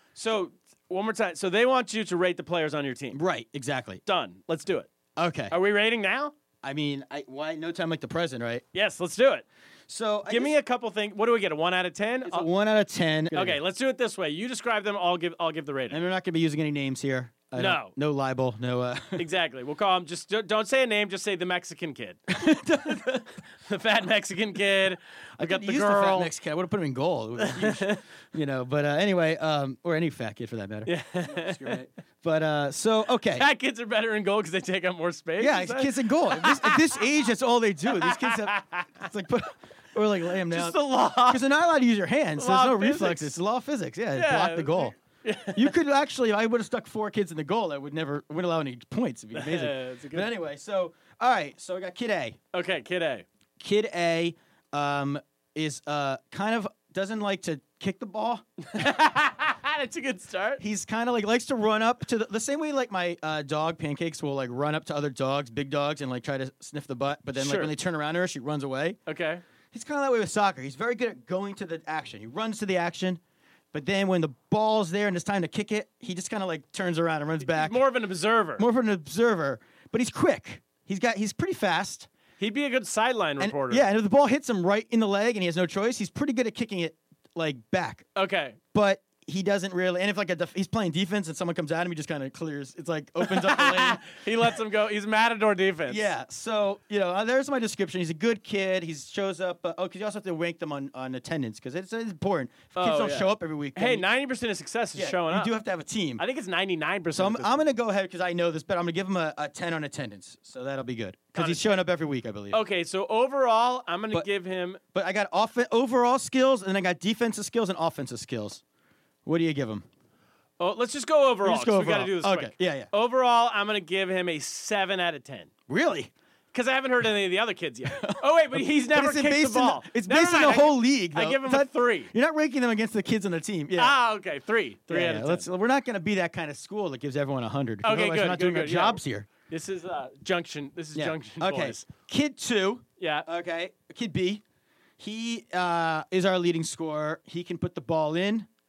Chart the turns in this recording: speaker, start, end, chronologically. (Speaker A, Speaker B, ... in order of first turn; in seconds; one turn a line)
Speaker A: 0.2-3.2
Speaker B: 3.1-4.0
Speaker A: 4.1-4.9
Speaker B: 5.2-5.5
Speaker A: 5.5-6.3
Speaker B: 6.6-8.6
Speaker A: 8.7-9.5
Speaker B: 9.9-10.6
Speaker A: 10.3-12.5
Speaker B: 12.2-13.6
Speaker A: 13.3-16.0
Speaker B: 15.9-19.3
Speaker A: 17.6-17.9
Speaker A: 19.2-22.2
Speaker B: 22.3-23.3
Speaker A: 23.7-26.3
Speaker B: 25.4-33.5
Speaker A: 27.4-28.0
Speaker A: 30.9-31.8
Speaker A: 33.4-37.0
Speaker B: 35.4-44.9
Speaker A: 37.9-38.9
Speaker A: 40.5-41.5
Speaker A: 42.4-43.3
Speaker A: 44.2-45.8
Speaker B: 45.5-52.4
Speaker A: 49.3-50.3
Speaker A: 52.5-53.3
Speaker B: 53.6-58.8
Speaker A: 58.7-60.6
Speaker B: 60.6-69.0
Speaker A: 67.3-67.7
Speaker A: 69.1-69.4
Speaker B: 69.7-73.2
Speaker B: 73.7-77.8
Speaker A: 77.5-78.7
Speaker B: 78.6-82.1
Speaker A: 82.4-83.8
Speaker B: 83.4-88.1
Speaker A: 88.2-88.6
Speaker B: 88.7-94.5
Speaker A: 93.3-96.1
Speaker B: 95.9-104.0
Speaker A: 102.8-105.5
Speaker B: 104.9-106.2
Speaker A: 106.2-107.6
Speaker B: 107.1-112.6
Speaker A: 111.3-111.8
Speaker A: 112.5-114.8
Speaker B: 114.9-118.6
Speaker B: 119.3-119.8
Speaker A: 120.6-125.5
Speaker B: 121.4-122.9
Speaker B: 125.7-126.1
Speaker A: 126.5-132.1
Speaker B: 127.9-133.9
Speaker A: 133.8-135.4
Speaker B: 134.9-139.3
Speaker A: 137.8-141.9
Speaker B: 140.9-144.4
Speaker A: 143.0-143.3
Speaker B: 145.0-148.5